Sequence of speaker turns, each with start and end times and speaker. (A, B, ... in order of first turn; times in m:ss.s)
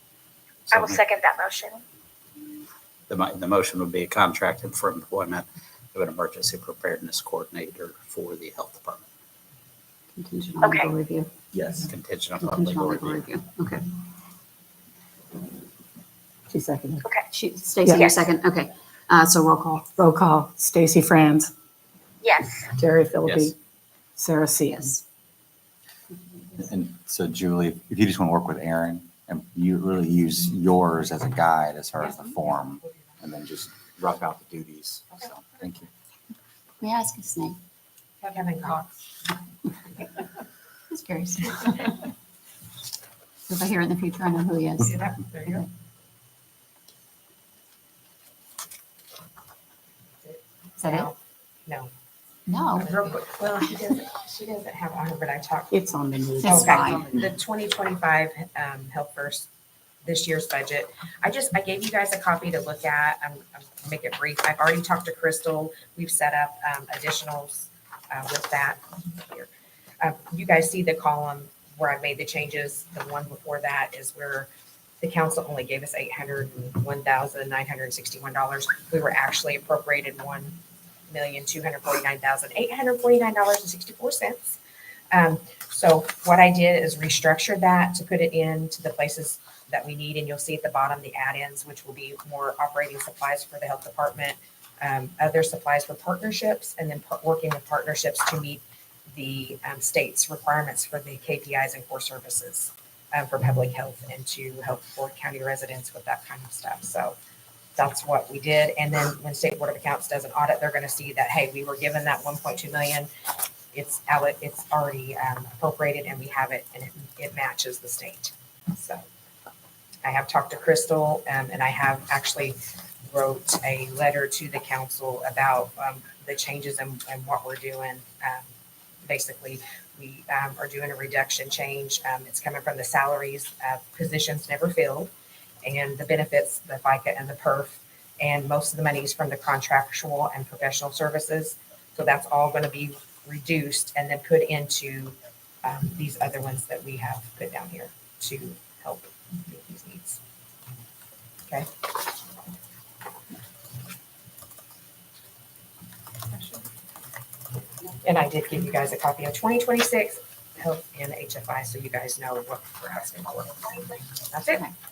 0:00.6-0:01.0 A
0:00.7-0:01.8 B
0:03.1-0:09.0 A
0:10.1-0:11.3 C
0:10.6-0:10.9 B
0:11.5-0:11.9 D
0:11.8-0:13.2 A
0:12.4-0:13.8 C
0:16.5-0:17.0 E
0:17.3-0:19.8 C
0:17.8-0:18.1 E
0:17.8-0:18.3 B
0:20.0-0:21.5 E
0:22.2-0:22.7 B
0:22.7-0:23.5 E
0:23.2-0:23.5 A
0:24.2-0:25.0 E
0:26.6-0:35.9 D
0:32.0-0:33.2 F
0:36.8-0:37.6 C
0:38.2-0:39.0 F
0:40.9-0:41.9 C
0:43.5-0:45.1 C
0:44.8-0:45.6 F
0:50.2-0:51.2 F
0:50.8-0:51.1 C
0:52.5-0:52.9 C
0:52.8-0:55.7 F
0:55.7-0:56.9 E
0:56.4-0:57.2 C
0:56.4-0:59.5 F
1:00.0-1:14.5 F
1:15.0-1:20.6 F
1:21.1-1:24.6 F
1:25.1-1:38.6 F
1:39.1-1:47.2 F
1:47.8-1:53.1 F
1:53.7-1:59.0 F
2:00.0-2:08.5 F
2:09.0-2:15.1 F
2:15.6-2:30.2 F
2:38.0-2:44.6 F